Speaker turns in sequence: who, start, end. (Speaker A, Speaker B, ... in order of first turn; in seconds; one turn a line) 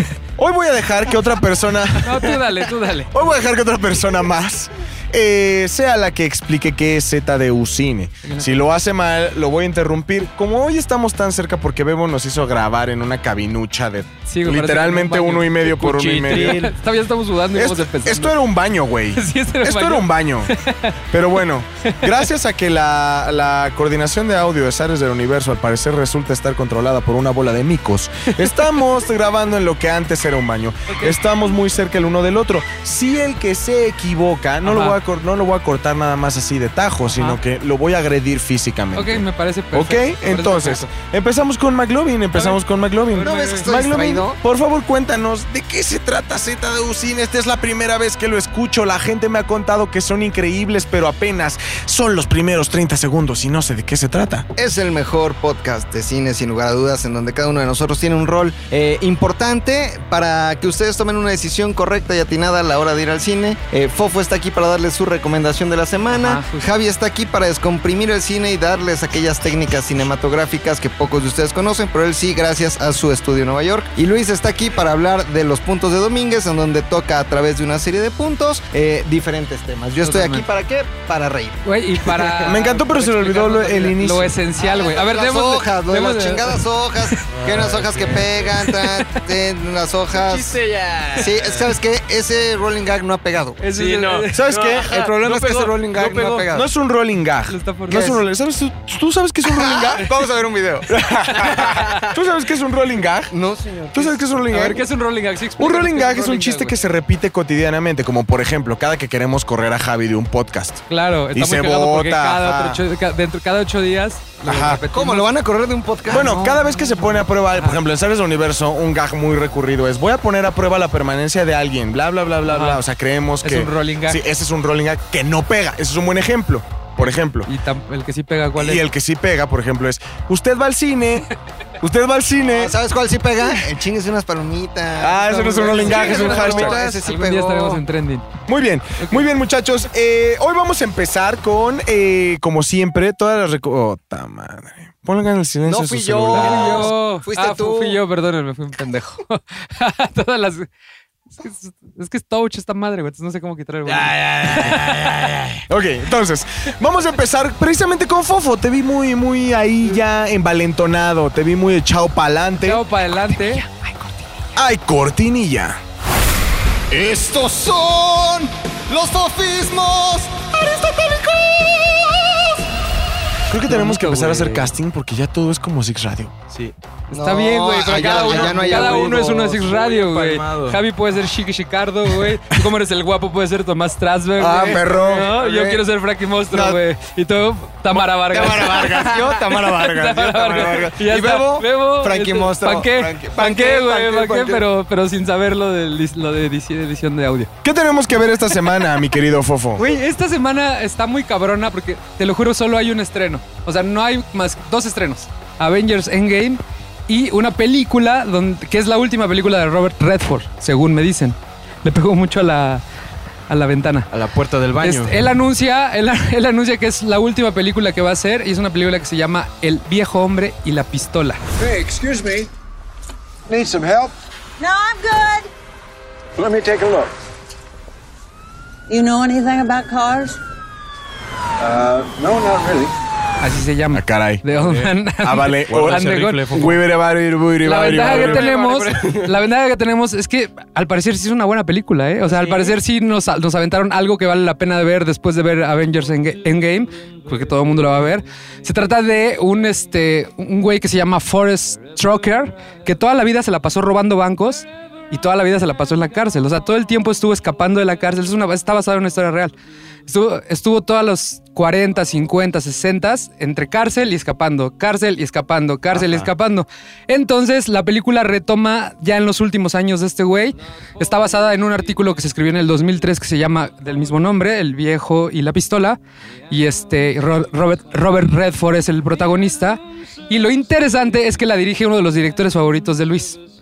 Speaker A: 0.4-2.4
Speaker B: 2.0-3.1
Speaker A: 3.1-16.7
Speaker B: 8.2-8.6
Speaker B: 14.3-18.4
Speaker C: 16.0-16.7
Speaker A: 17.5-20.5
Speaker B: 19.1-20.9
Speaker A: 21.1-54.5
Speaker B: 30.9-31.2
Speaker B: 34.6-35.0
Speaker B: 37.1-37.4
Speaker B: 38.9-40.9
Speaker B: 42.3-43.7
Speaker D: 43.2-44.4
Speaker D: 54.5-81.6
Speaker B: 66.1-66.7
Speaker B: 80.0-80.4
Speaker B: 81.6-86.6
Speaker A: 82.4-84.3
Speaker D: 84.5-90.6
Speaker C: 87.3-88.3
Speaker B: 88.6-89.2
Speaker C: 90.1-91.7
Speaker D: 91.1-93.6
Speaker B: 93.6-94.4
Speaker C: 93.7-96.5
Speaker A: 94.3-95.1
Speaker D: 94.8-96.7
Speaker A: 96.5-100.1
Speaker B: 97.5-98.2
Speaker D: 99.4-101.9
Speaker A: 100.9-103.3
Speaker B: 101.4-101.7
Speaker D: 103.3-104.2
Speaker A: 103.9-104.8
Speaker B: 104.5-106.8
Speaker A: 105.6-112.8
Speaker B: 110.9-115.3
Speaker A: 114.4-114.8
Speaker D: 114.9-116.3
Speaker B: 116.1-117.8
Speaker A: 116.1-127.5
Speaker B: 122.5-122.8
Speaker B: 123.4-124.2
Speaker B: 127.5-128.9
Speaker A: 128.6-131.3
Speaker A: 131.8-132.8
Speaker D: 132.4-137.8
Speaker A: 135.0-136.8
Speaker B: 135.3-138.3
Speaker C: 135.8-136.9
Speaker A: 138.5-146.9
Speaker D: 145.7-148.0
Speaker B: 146.3-150.7
Speaker B: 151.4-155.3
Speaker C: 153.8-155.6
Speaker A: 155.7-162.8
Speaker B: 162.6-163.7
Speaker A: 164.5-165.8
Speaker D: 166.9-172.6
Speaker A: 173.5-176.3
Speaker B: 173.7-174.7
Speaker D: 177.1-179.6
Speaker B: 177.1-188.9
Speaker C: 177.8-180.8
Speaker D: 184.4-185.8
Speaker A: 184.4-185.3
Speaker D: 188.0-194.7
Speaker A: 188.3-189.2
Speaker B: 189.6-197.5
Speaker A: 197.6-199.8
Speaker B: 199.8-212.8
Speaker B: 213.5-214.1
Speaker C: 214.1-215.2
Speaker B: 214.8-221.4
Speaker E: 221.6-222.5
Speaker E: 223.5-224.1
Speaker F: 224.6-225.5
Speaker E: 226.4-227.1
Speaker F: 228.9-230.4
Speaker E: 231.6-232.9
Speaker B: 233.4-236.4
Speaker A: 233.9-234.4
Speaker C: 234.5-234.9
Speaker A: 235.2-238.4
Speaker C: 235.7-236.8
Speaker B: 237.6-259.5
Speaker C: 237.8-239.3
Speaker C: 242.2-242.8
Speaker B: 260.1-276.0
Speaker C: 265.9-266.3
Speaker B: 276.5-283.4